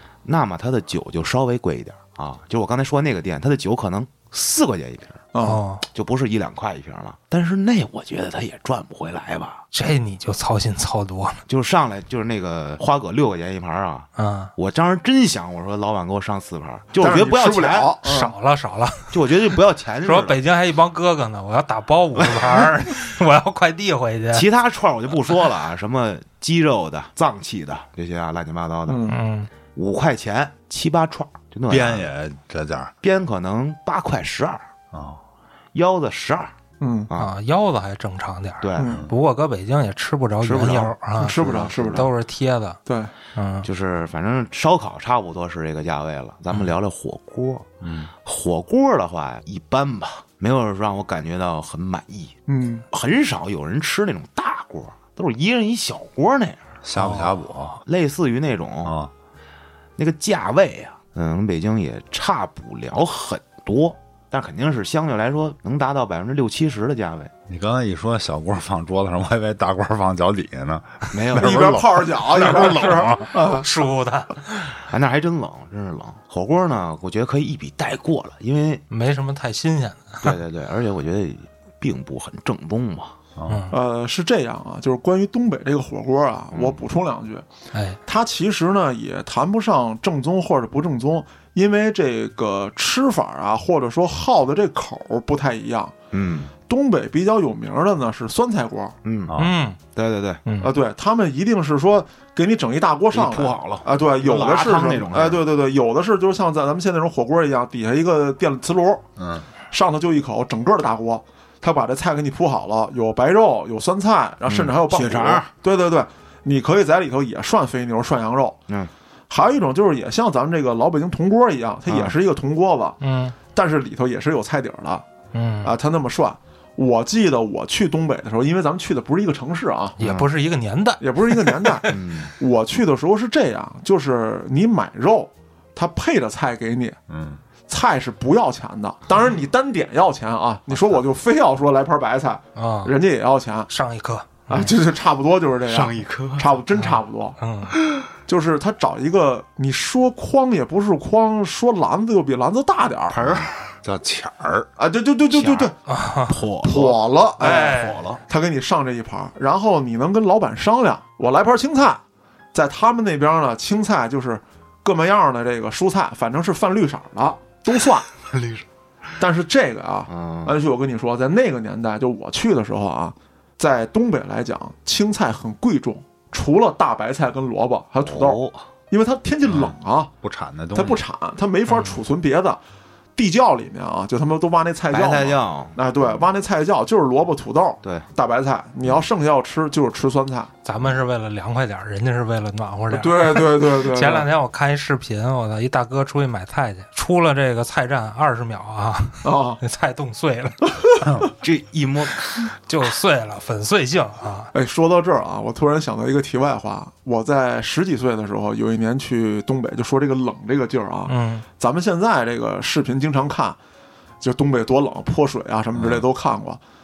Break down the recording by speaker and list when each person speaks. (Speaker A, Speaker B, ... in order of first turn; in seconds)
Speaker A: 0.2-5.2, 5.9-9.6, 11.5-17.9, 19.1-20.4, 22.2-22.7, 24.3-29.0, 29.7-32.1, 33.0-34.6, 35.7-36.5, 38.6-39.0, 40.4-42.1, 43.6-52.3, 52.9-56.7, 57.8-59.0, 60.0-67.3, 71.1-71.8, 74.8-78.8, 80.2-83.1, 86.5-86.8, 96.1-96.5, 99.0-99.4, 99.9-100.4, 103.1-105.4, 114.4-115.5, 121.9-122.1, 130.0-130.3, 131.8-132.3, 145.7-146.5, 147.7-148.1, 153.1-153.8, 155.3-158.2, 168.3-168.7, 170.1-170.5, 178.0-178.6, 184.9-185.8, 201.4-202.2, 215.8-216.0
Speaker B: 5.3-5.6, 16.9-18.3, 28.9-29.2, 36.8-37.1, 38.8-39.0, 41.1-42.1, 42.9-43.1, 52.5-52.8, 71.3-73.7, 83.7-87.4, 88.0-95.9, 96.7-99.0, 100.6-109.0, 109.7-118.6, 119.3-123.0, 123.5-125.0, 125.6-130.0, 131.0-137.0, 137.7-143.7, 144.5-147.3, 148.3-153.2, 154.8-155.7, 156.6-162.0, 162.5-168.1, 169.2-178.4, 178.9-180.1, 180.7-182.6, 183.2-190.5, 192.9-194.3, 199.2-199.6, 204.5-213.6, 214.2-216.6
Speaker C: 5.4-5.8, 9.7-11.4, 14.2-14.5, 18.0-24.5, 29.1-29.5, 37.1-42.8, 43.3-43.7, 56.9-57.4, 73.3-74.7, 78.9-80.3, 83.5-83.7, 87.7-88.0, 99.4-99.8, 100.5-100.7, 123.0-123.3, 125.3-125.7, 130.0-131.9, 142.6-142.9, 143.7-144.7, 146.8-147.7, 155.9-156.3, 157.4-158.0, 181.7-181.9, 190.6-200.6, 202.7-204.5, 211.1-211.4
Speaker D: 31.7-32.9, 34.9-35.2, 38.9-39.1, 47.8-48.1, 56.8-57.8, 58.8-59.1, 67.5-73.3, 83.4-83.6, 99.2-99.5, 109.2-109.5, 137.1-137.4, 153.8-154.7, 180.2-181.0